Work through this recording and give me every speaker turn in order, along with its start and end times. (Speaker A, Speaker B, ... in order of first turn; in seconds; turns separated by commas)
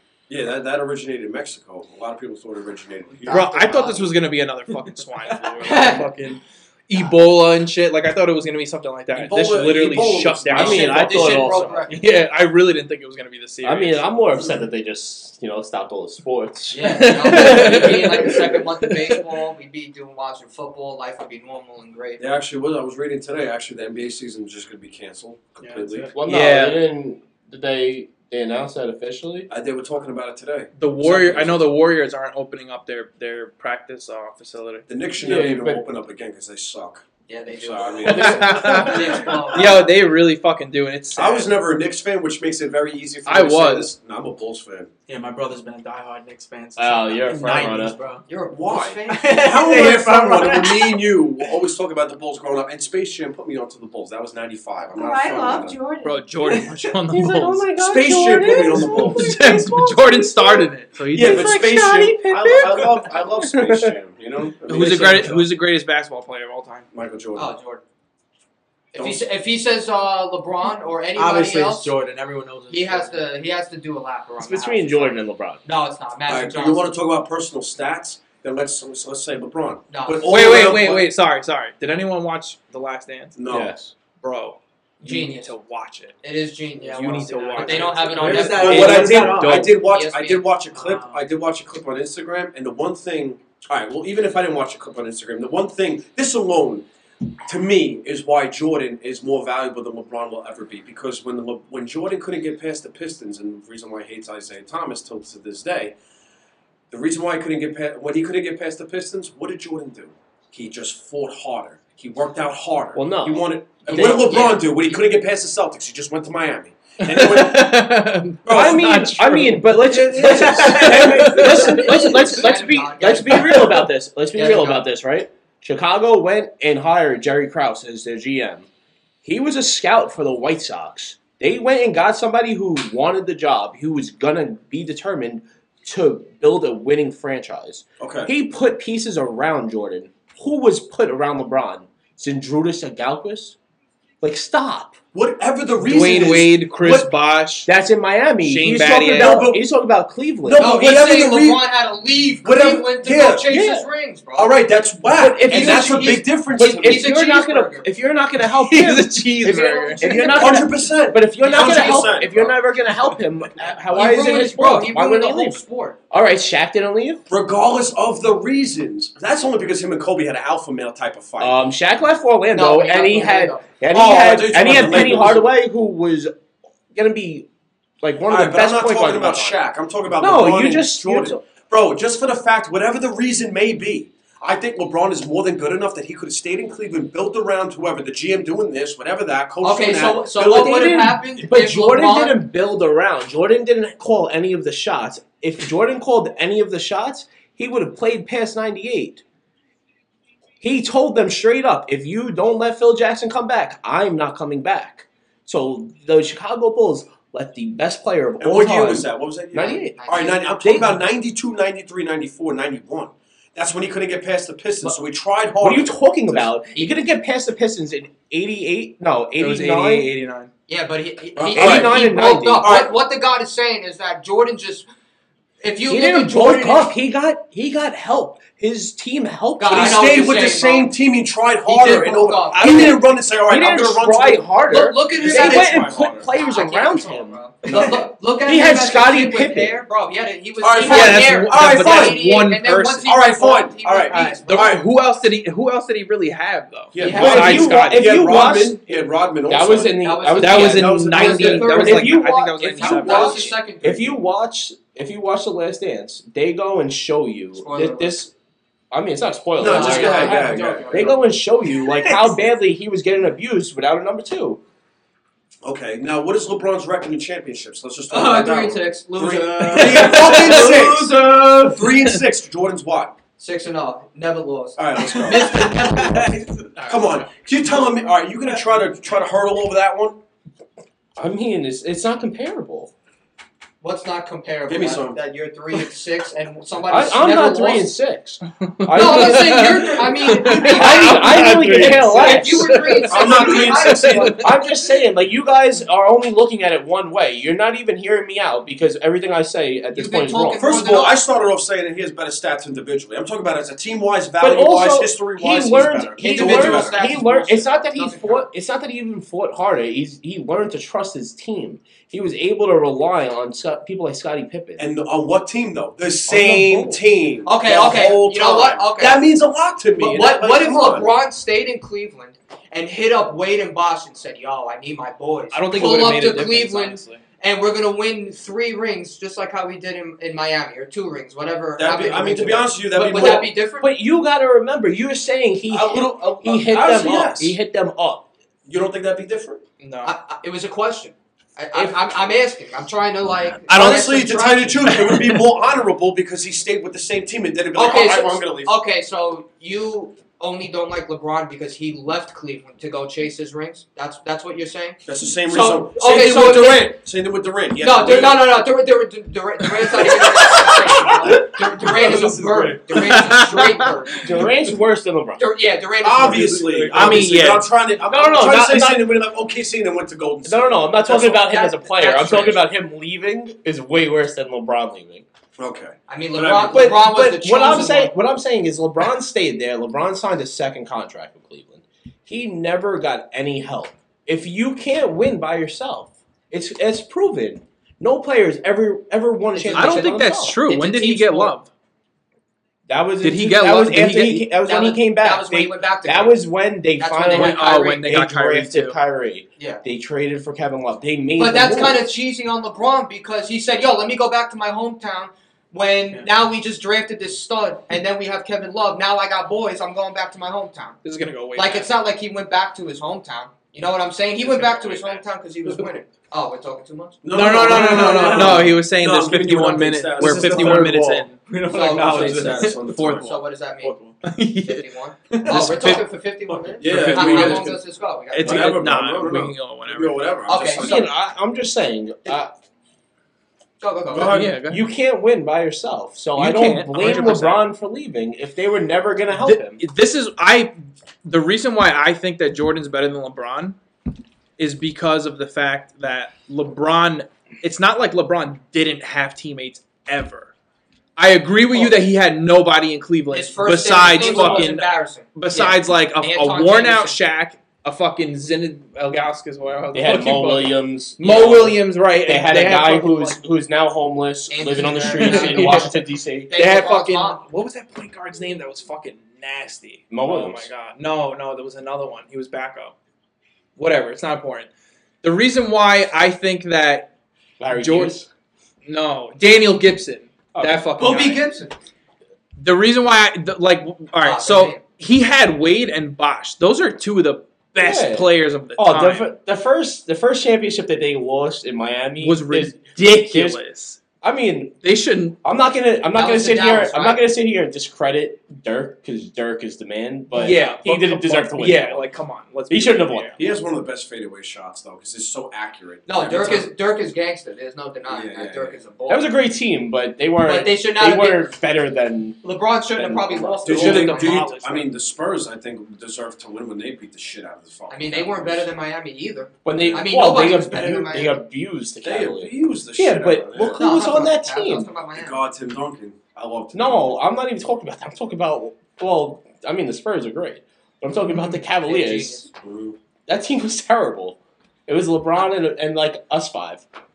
Speaker A: 0.3-3.5, Speaker B: 3.2-14.0, Speaker C: 3.3-4.1, Speaker D: 5.7-6.0, Speaker C: 5.7-6.0, Speaker A: 9.1-11.1, Speaker E: 10.5-11.8, Speaker C: 10.6-12.1, Speaker E: 13.6-18.6, Speaker C: 16.7-22.2, Speaker B: 16.9-19.2, Speaker A: 22.2-26.1, Speaker D: 25.6-26.1, Speaker E: 26.1-29.5, Speaker B: 26.2-26.8, Speaker A: 29.5-31.6, Speaker B: 30.8-34.9, Speaker A: 34.9-39.0, Speaker E: 35.2-35.8, Speaker C: 37.3-39.9, Speaker E: 38.0-39.1, Speaker B: 38.0-41.5, Speaker A: 41.1-44.9, Speaker B: 43.2-43.9, Speaker D: 45.1-48.2, Speaker E: 46.8-48.0, Speaker C: 48.2-49.5, Speaker A: 48.5-55.8, Speaker D: 49.1-51.1, Speaker F: 54.9-56.3, Speaker B: 56.0-57.6, Speaker E: 57.1-59.2, Speaker A: 57.8-59.3, Speaker B: 58.5-63.9, Speaker F: 59.0-60.7, Speaker A: 61.1-65.5, Speaker E: 61.3-61.8, Speaker E: 62.4-62.7, Speaker B: 64.7-66.9, Speaker A: 66.9-67.5, Speaker C: 67.3-67.8, Speaker A: 68.9-69.2, Speaker C: 68.9-71.9, Speaker D: 71.1-73.2, Speaker C: 72.7-76.8, Speaker E: 74.4-75.6, Speaker A: 76.3-81.1, Speaker C: 79.9-80.3, Speaker B: 80.3-83.3, Speaker A: 83.4-83.7, Speaker E: 83.5-83.9, Speaker B: 84.2-86.2, Speaker C: 85.0-85.5, Speaker C: 86.2-90.4, Speaker B: 86.8-89.7, Speaker D: 88.1-89.7, Speaker A: 88.3-96.8, Speaker D: 90.7-91.2, Speaker A: 97.4-106.0, Speaker A: 106.9-117.8, Speaker E: 112.9-114.6, Speaker C: 113.8-114.7, Speaker B: 117.0-122.4, Speaker A: 118.4-119.0, Speaker E: 118.5-128.7, Speaker D: 120.0-122.3, Speaker C: 121.8-123.8, Speaker B: 123.3-123.8, Speaker C: 124.3-124.9, Speaker E: 129.2-143.6, Speaker A: 138.0-138.3, Speaker E: 144.2-145.0, Speaker A: 145.1-147.1, Speaker B: 145.8-147.7, Speaker E: 147.7-150.7, Speaker B: 148.4-149.4, Speaker A: 149.1-149.6, Speaker A: 150.4-151.6, Speaker C: 150.5-154.6, Speaker A: 152.4-153.5, Speaker E: 153.5-153.8, Speaker A: 154.3-157.1, Speaker E: 155.2-167.2, Speaker C: 155.5-157.9, Speaker B: 158.4-160.6, Speaker C: 159.9-160.4, Speaker A: 160.1-162.6, Speaker C: 161.4-162.1, Speaker C: 163.9-166.0, Speaker A: 167.3-171.6, Speaker E: 171.4-176.3, Speaker C: 172.5-175.3, Speaker A: 173.9-175.5, Speaker E: 176.9-177.5, Speaker E: 178.0-179.6, Speaker A: 178.3-190.9, Speaker E: 180.2-181.4, Speaker C: 189.6-192.4, Speaker E: 190.5-199.2, Speaker E: 200.6-210.0, Speaker A: 208.4-216.5, Speaker C: 209.6-210.5, Speaker E: 210.6-211.0, Speaker E: 215.6-220.1, Speaker C: 216.7-217.0, Speaker B: 219.4-220.5, Speaker C: 220.7-224.9, Speaker A: 221.3-222.9, Speaker E: 221.5-222.7, Speaker C: 225.6-226.9, Speaker E: 225.9-230.2, Speaker C: 229.6-230.9, Speaker A: 229.7-234.4, Speaker C: 231.7-232.9, Speaker B: 232.5-233.0, Speaker E: 233.5-237.7, Speaker C: 234.6-244.8, Speaker A: 235.2-236.3, Speaker D: 237.7-237.9, Speaker E: 238.4-239.8, Speaker A: 240.6-242.2, Speaker B: 240.9-243.1, Speaker A: 243.0-244.8, Speaker D: 244.1-244.4, Speaker B: 244.5-248.2, Speaker A: 246.9-250.0, Speaker C: 247.0-247.7, Speaker E: 247.0-248.8, Speaker E: 249.5-258.3, Speaker C: 250.0-254.2, Speaker B: 250.4-253.5, Speaker A: 250.6-251.9, Speaker C: 257.5-258.2, Speaker E: 258.9-264.6, Speaker A: 259.6-261.1, Speaker C: 259.6-261.3, Speaker A: 265.6-273.1, Speaker C: 268.1-271.1, Speaker B: 269.8-271.2, Speaker B: 271.9-272.2, Speaker C: 273.4-276.4, Speaker A: 274.8-276.3, Speaker B: 275.3-277.3, Speaker A: 276.9-280.2, Speaker E: 281.2-282.9, Speaker C: 283.8-287.9, Speaker A: 284.7-285.2, Speaker E: 286.9-289.9, Speaker B: 288.6-294.5, Speaker C: 288.9-294.5, Speaker E: 290.4-293.5, Speaker A: 293.1-294.4, Speaker E: 294.2-300.6, Speaker C: 299.9-301.2, Speaker A: 300.6-307.3, Speaker E: 304.4-314.8, Speaker C: 306.2-308.5, Speaker A: 314.8-321.1, Speaker E: 316.3-317.0, Speaker C: 317.4-319.2, Speaker C: 320.0-334.0, Speaker B: 325.5-327.2, Speaker A: 331.8-333.5, Speaker E: 333.0-338.2, Speaker A: 335.7-337.6, Speaker A: 338.6-339.6, Speaker B: 339.8-340.1, Speaker C: 340.0-345.2, Speaker B: 343.7-345.4, Speaker A: 343.7-348.8, Speaker C: 347.7-356.9, Speaker A: 355.0-358.4, Speaker C: 357.8-364.5, Speaker B: 360.0-361.9, Speaker A: 361.0-363.8, Speaker B: 362.9-364.0, Speaker E: 364.2-365.4, Speaker C: 365.4-367.2, Speaker A: 366.0-371.2, Speaker E: 366.8-367.3, Speaker B: 366.9-367.7, Speaker E: 368.1-369.1, Speaker E: 370.4-375.2, Speaker C: 371.1-372.7, Speaker A: 375.6-376.9, Speaker C: 376.1-378.1, Speaker E: 376.7-390.6, Speaker C: 389.5-391.5, Speaker B: 389.7-391.7, Speaker E: 392.9-402.0, Speaker B: 393.2-394.5, Speaker C: 394.6-398.0, Speaker B: 397.3-399.0, Speaker C: 399.6-399.8, Speaker C: 401.4-411.0, Speaker B: 411.0-411.9, Speaker C: 411.5-418.6, Speaker B: 414.4-415.2, Speaker A: 417.2-421.3, Speaker B: 417.3-423.4, Speaker D: 420.2-422.8, Speaker C: 421.7-422.6, Speaker A: 421.9-423.4, Speaker C: 423.1-424.0, Speaker D: 423.8-424.1, Speaker B: 424.2-424.8, Speaker C: 424.6-428.9, Speaker D: 425.3-426.0, Speaker B: 425.4-426.1, Speaker A: 426.8-427.8, Speaker B: 426.8-427.7, Speaker B: 428.3-430.2, Speaker A: 428.4-431.1, Speaker C: 430.5-431.0, Speaker E: 430.8-432.5, Speaker C: 433.8-434.5, Speaker A: 434.1-434.5, Speaker B: 434.2-434.9, Speaker E: 434.6-439.8, Speaker B: 436.4-437.6, Speaker B: 439.3-443.8, Speaker B: 444.6-450.5, Speaker B: 451.1-463.4, Speaker C: 453.3-457.2, Speaker E: 454.0-454.7, Speaker E: 459.9-466.5, Speaker C: 464.5-465.9, Speaker B: 465.0-465.9, Speaker C: 466.5-467.4, Speaker B: 466.5-472.9, Speaker E: 470.1-470.7, Speaker B: 473.8-474.7, Speaker B: 475.2-477.1, Speaker E: 477.6-478.3, Speaker B: 477.7-478.1, Speaker B: 478.9-481.4, Speaker E: 480.5-480.9, Speaker C: 481.0-481.7, Speaker B: 482.6-489.3, Speaker C: 484.2-484.8, Speaker E: 487.8-493.6, Speaker B: 492.2-494.0, Speaker E: 494.2-494.8, Speaker B: 494.8-495.4, Speaker E: 495.4-502.1, Speaker C: 496.1-497.2, Speaker B: 500.3-503.4, Speaker E: 502.7-503.4, Speaker A: 503.4-506.7, Speaker C: 506.1-509.4, Speaker A: 508.1-508.8, Speaker E: 509.1-512.4, Speaker C: 510.4-511.5, Speaker C: 512.4-514.5, Speaker E: 512.9-514.1, Speaker A: 513.6-518.7, Speaker B: 513.7-514.9, Speaker C: 517.9-521.4, Speaker E: 519.6-525.0, Speaker A: 519.7-520.1, Speaker A: 522.0-523.8, Speaker C: 523.7-525.4, Speaker A: 525.1-527.2, Speaker E: 526.7-532.4, Speaker B: 531.3-531.5, Speaker C: 531.8-532.5, Speaker A: 532.6-533.0, Speaker E: 533.3-536.8